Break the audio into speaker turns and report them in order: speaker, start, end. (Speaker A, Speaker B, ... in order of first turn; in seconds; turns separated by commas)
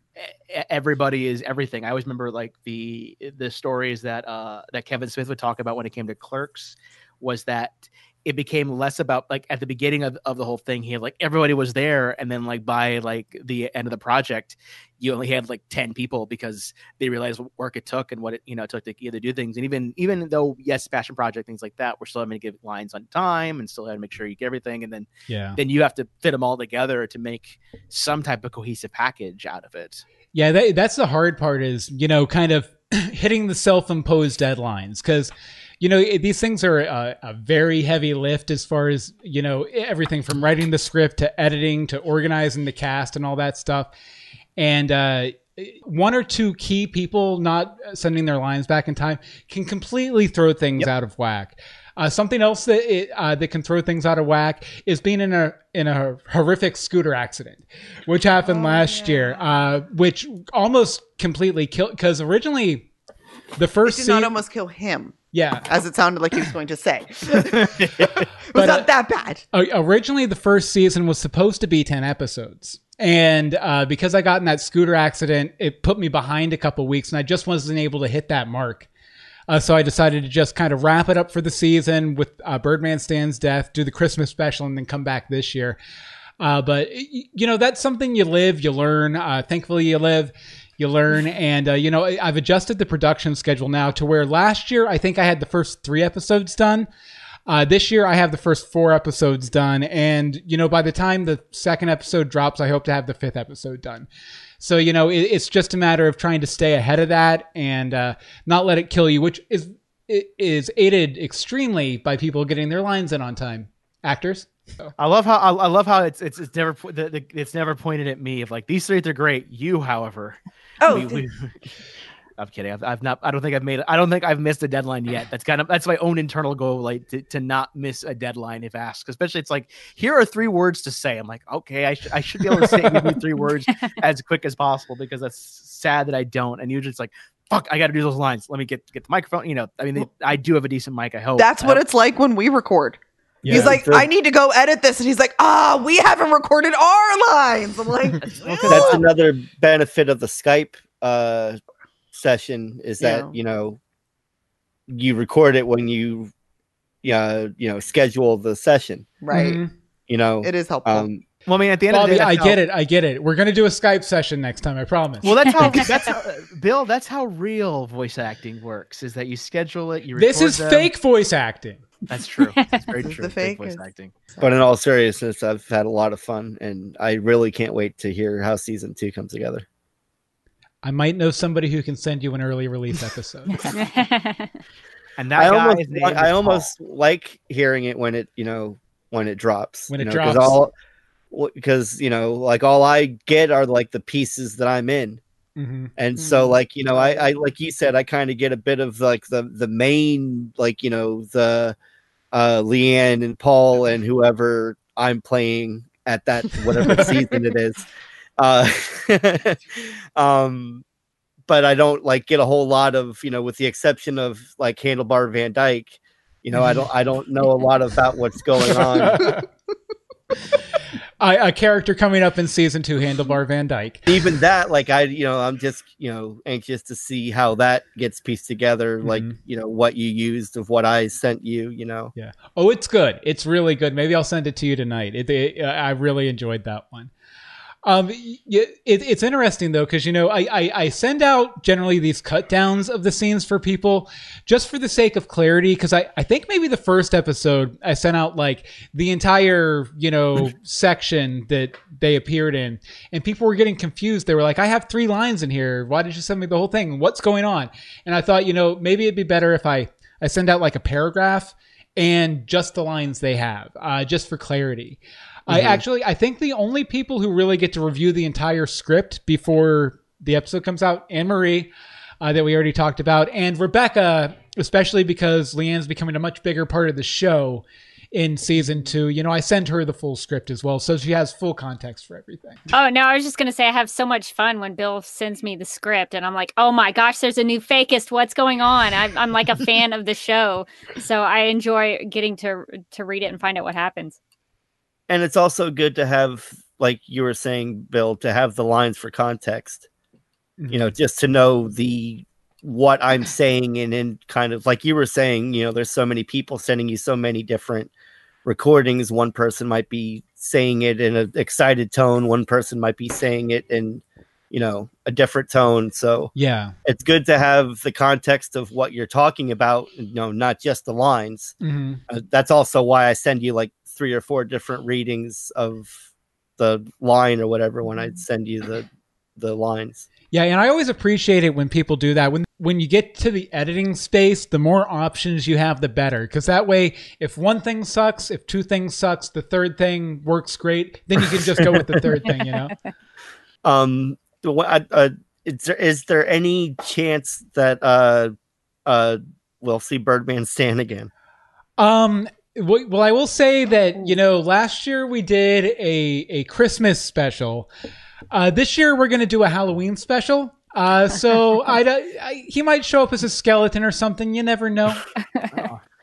Speaker A: 0.2-30.0, Speaker B: 25.3-25.6, Speaker B: 30.3-43.9, Speaker B: 44.6-62.9, Speaker C: 58.5-59.3, Speaker B: 63.6-64.4, Speaker C: 63.9-67.8, Speaker B: 65.3-65.7, Speaker A: 67.6-68.1, Speaker C: 68.5-69.4, Speaker B: 68.5-68.9, Speaker B: 69.5-78.9, Speaker B: 79.5-85.8, Speaker B: 86.4-96.9, Speaker B: 97.5-104.1, Speaker B: 104.6-114.9, Speaker A: 115.0-121.6, Speaker C: 120.8-121.3, Speaker A: 122.4-141.8, Speaker B: 132.6-133.2, Speaker C: 141.4-149.1, Speaker B: 143.4-143.8, Speaker D: 143.5-144.1, Speaker A: 148.4-149.0, Speaker D: 148.7-151.6, Speaker D: 152.1-153.8, Speaker C: 153.0-153.3, Speaker D: 154.9-156.3, Speaker D: 157.0-159.1, Speaker C: 159.2-159.6, Speaker B: 159.3-159.7, Speaker D: 160.1-161.2, Speaker C: 160.4-161.1, Speaker A: 161.5-162.6, Speaker B: 161.9-165.8, Speaker A: 165.2-170.9, Speaker B: 170.2-171.9, Speaker A: 172.1-174.1, Speaker C: 173.0-173.8, Speaker D: 174.4-179.7, Speaker B: 180.8-183.5, Speaker E: 183.8-184.5, Speaker A: 185.2-186.7, Speaker D: 185.4-190.7, Speaker B: 189.9-190.6, Speaker D: 191.3-195.2, Speaker B: 195.6-195.9, Speaker D: 196.0-201.8, Speaker C: 196.2-196.5, Speaker D: 202.3-207.9, Speaker D: 208.4-209.6, Speaker D: 210.2-210.8, Speaker D: 211.5-219.4, Speaker B: 216.6-216.8, Speaker B: 218.9-219.4, Speaker B: 221.2-224.1, Speaker D: 224.1-232.1, Speaker B: 229.0-229.3, Speaker B: 232.2-237.1, Speaker B: 237.8-282.6, Speaker D: 265.5-265.8, Speaker E: 282.7-294.2, Speaker D: 295.1-299.9, Speaker B: 300.6-300.9, Speaker D: 300.7-307.9, Speaker D: 308.4-316.3, Speaker B: 316.4-316.7, Speaker D: 316.9-321.6, Speaker B: 321.6-322.0, Speaker D: 322.1-326.0, Speaker D: 326.6-330.1, Speaker B: 330.3-342.7, Speaker D: 343.6-348.3, Speaker D: 348.9-351.1, Speaker B: 351.8-357.7, Speaker B: 358.3-365.0, Speaker A: 365.5-365.8